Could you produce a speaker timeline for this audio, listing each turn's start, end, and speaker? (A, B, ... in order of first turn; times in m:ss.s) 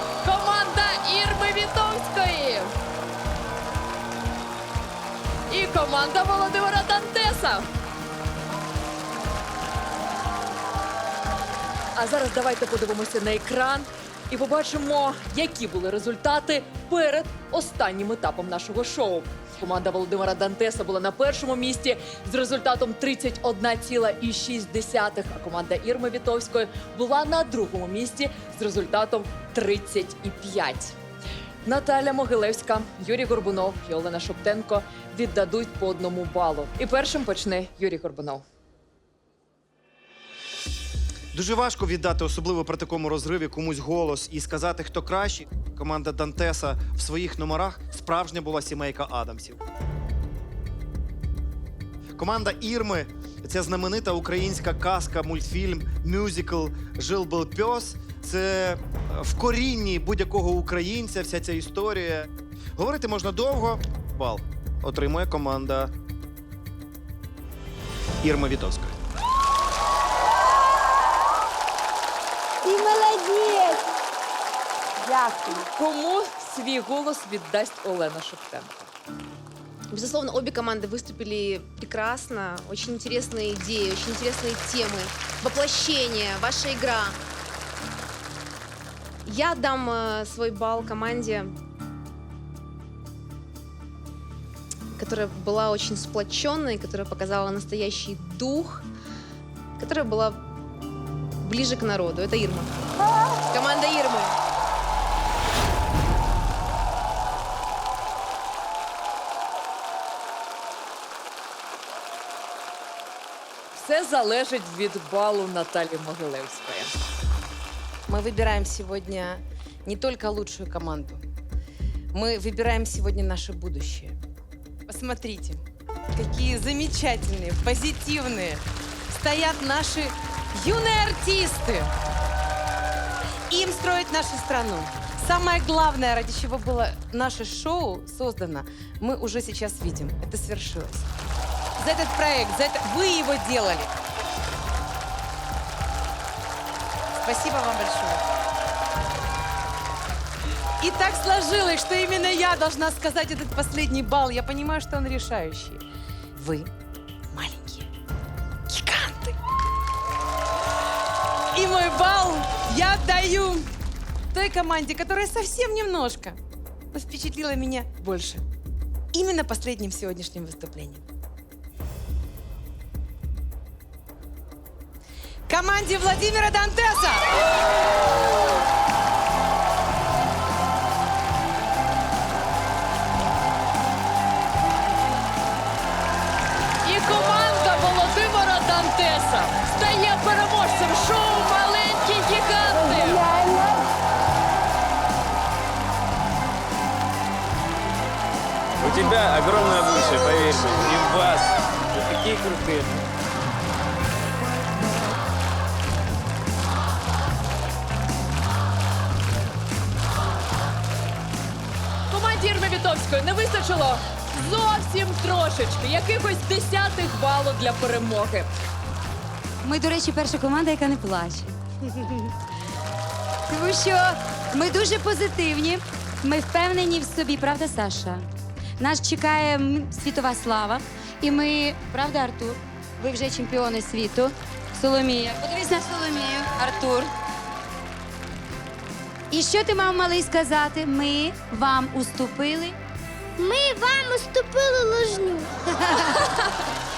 0:00.2-0:02.7 A
0:05.5-0:07.6 A
0:11.9-0:30.9 A
0:31.6-0:38.4 A
0:41.3-0:49.6 B
0:52.2-1:02.2 B
1:02.8-1:05.9 B
1:08.2-1:08.9 B
1:12.6-1:13.8 C
1:15.0-1:15.5 C
1:15.6-1:18.9 A
1:19.9-1:27.2 D
1:29.2-1:31.5 D
1:35.0-1:38.9 D
1:39.8-1:40.4 D
1:41.4-1:42.7 D
1:43.5-1:44.4 D
1:53.7-1:57.0 A
1:58.1-2:01.2 E
2:02.1-2:04.2 E
2:04.9-2:05.6 E
2:06.1-2:11.9 E
2:13.5-2:21.1 E
2:21.8-2:23.9 E
2:27.2-2:28.2 E
2:30.8-2:35.8 E
2:36.4-2:36.7 E
2:37.3-2:37.9 E
2:38.7-2:39.4 E
2:41.5-2:43.7 E
2:44.3-2:46.4 E
2:46.9-2:48.4 E
2:49.1-2:51.0 E
2:55.5-2:57.3 E
3:06.8-3:13.3 A
3:13.2-3:13.8 C
3:18.8-3:23.0 F
3:32.1-3:38.5 A
3:39.6-3:41.6 G
3:43.5-3:48.3 G
3:48.8-3:57.1 G
3:59.3-4:02.8 G
4:03.4-4:05.5 C
4:06.0-4:06.4 A